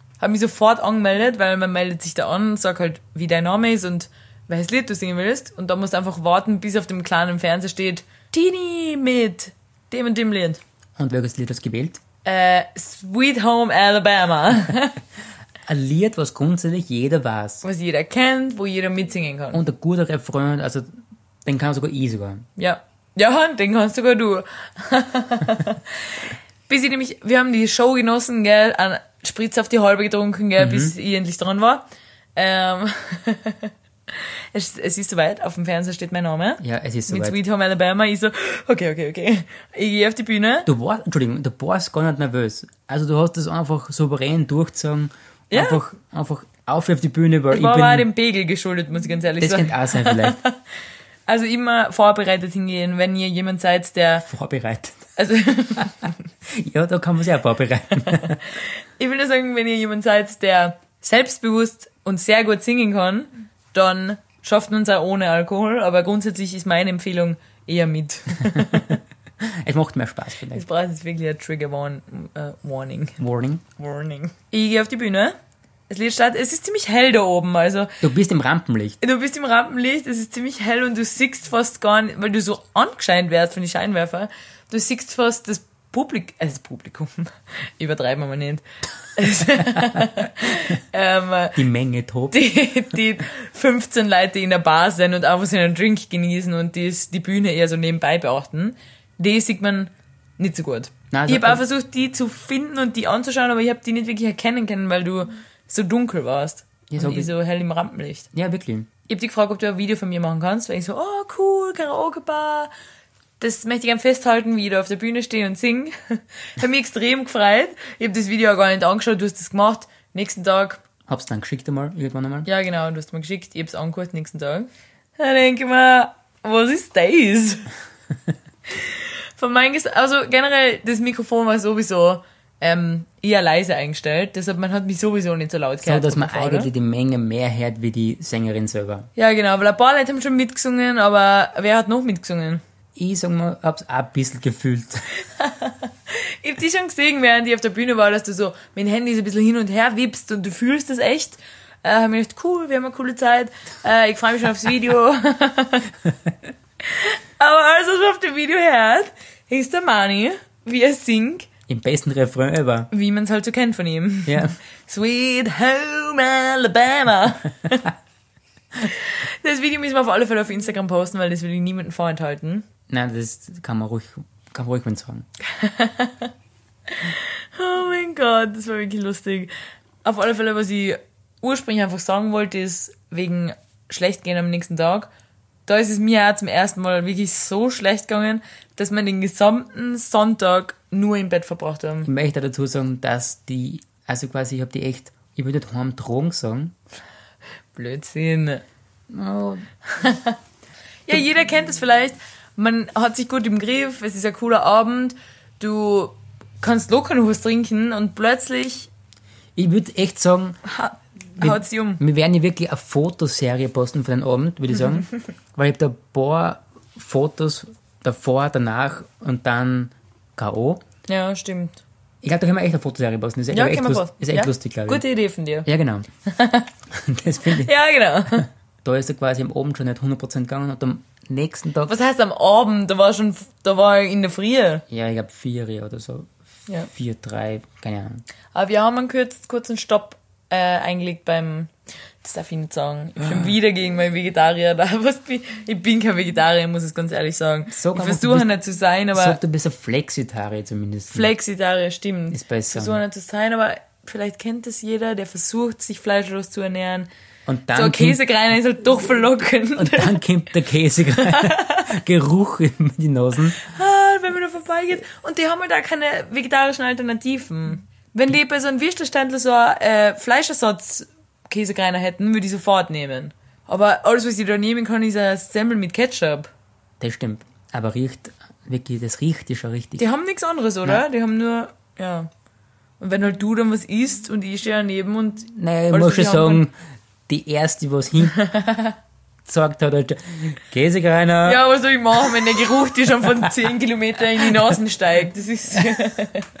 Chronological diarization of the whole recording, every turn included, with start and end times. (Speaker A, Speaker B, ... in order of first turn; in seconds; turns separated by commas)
Speaker A: 0.2-10.6, Speaker B: 11.0-12.0, Speaker A: 12.2-15.0, Speaker B: 15.7-17.6, Speaker A: 17.6-19.6, Speaker B: 19.5-20.9, Speaker B: 21.4-22.5, Speaker A: 22.6-31.8, Speaker B: 30.6-30.9, Speaker A: 32.4-40.7, Speaker B: 36.6-37.4, Speaker B: 40.6-48.1, Speaker A: 45.5-45.8, Speaker A: 47.5-50.6, Speaker B: 49.4-50.4, Speaker A: 51.3-54.3, Speaker B: 54.2-55.1, Speaker A: 55.2-56.1, Speaker B: 56.5-58.4, Speaker A: 58.2-69.0, Speaker B: 68.5-70.6, Speaker A: 70.5-73.2, Speaker B: 73.2-73.6, Speaker A: 73.8-75.3, Speaker A: 75.9-78.0, Speaker B: 78.0-79.0, Speaker A: 79.0-88.6, Speaker A: 89.1-91.6, Speaker B: 91.5-92.4, Speaker A: 92.3-108.3, Speaker B: 101.1-101.6, Speaker B: 106.9-107.3, Speaker B: 108.3-108.9, Speaker A: 109.1-112.7, Speaker A: 113.4-120.8, Speaker B: 121.1-122.5, Speaker A: 122.5-127.7, Speaker A: 128.7-136.7, Speaker B: 135.8-139.1, Speaker A: 139.2-142.6, Speaker B: 142.9-145.1, Speaker A: 145.2-155.9, Speaker A: 156.8-161.5, Speaker B: 161.7-162.9, Speaker A: 162.9-167.9, Speaker B: 164.2-164.6, Speaker A: 168.8-172.7, Speaker B: 172.9-175.2, Speaker A: 175.4-176.3, Speaker A: 176.9-179.5, Speaker A: 180.0-185.1, Speaker A: 185.7-192.1, Speaker B: 192.0-196.8, Speaker A: 197.7-198.6, Speaker B: 199.1-199.7, Speaker A: 199.9-200.4, Speaker A: 201.1-208.9, Speaker B: 209.6-210.6, Speaker A: 210.6-212.0, Speaker B: 211.4-220.8, Speaker A: 221.1-221.8, Speaker B: 222.2-225.0, Speaker A: 223.5-225.7, Speaker B: 225.6-226.1, Speaker A: 226.2-226.7, Speaker B: 226.9-227.7, Speaker A: 227.4-228.4, Speaker B: 228.3-231.9, Speaker A: 231.9-234.8, Speaker B: 234.9-238.2, Speaker A: 238.5-249.4, Speaker B: 243.2-243.5, Speaker B: 247.7-248.5, Speaker B: 249.1-251.3, Speaker A: 251.1-257.1, Speaker B: 252.3-253.0, Speaker B: 257.5-258.2, Speaker A: 257.7-260.2, Speaker B: 259.8-263.6, Speaker A: 261.1-261.9, Speaker A: 263.6-276.5, Speaker B: 277.0-280.0, Speaker A: 280.0-282.3, Speaker A: 283.0-286.6, Speaker B: 285.5-286.7, Speaker B: 287.3-288.4, Speaker A: 288.3-288.9, Speaker B: 289.4-291.6, Speaker A: 291.4-296.4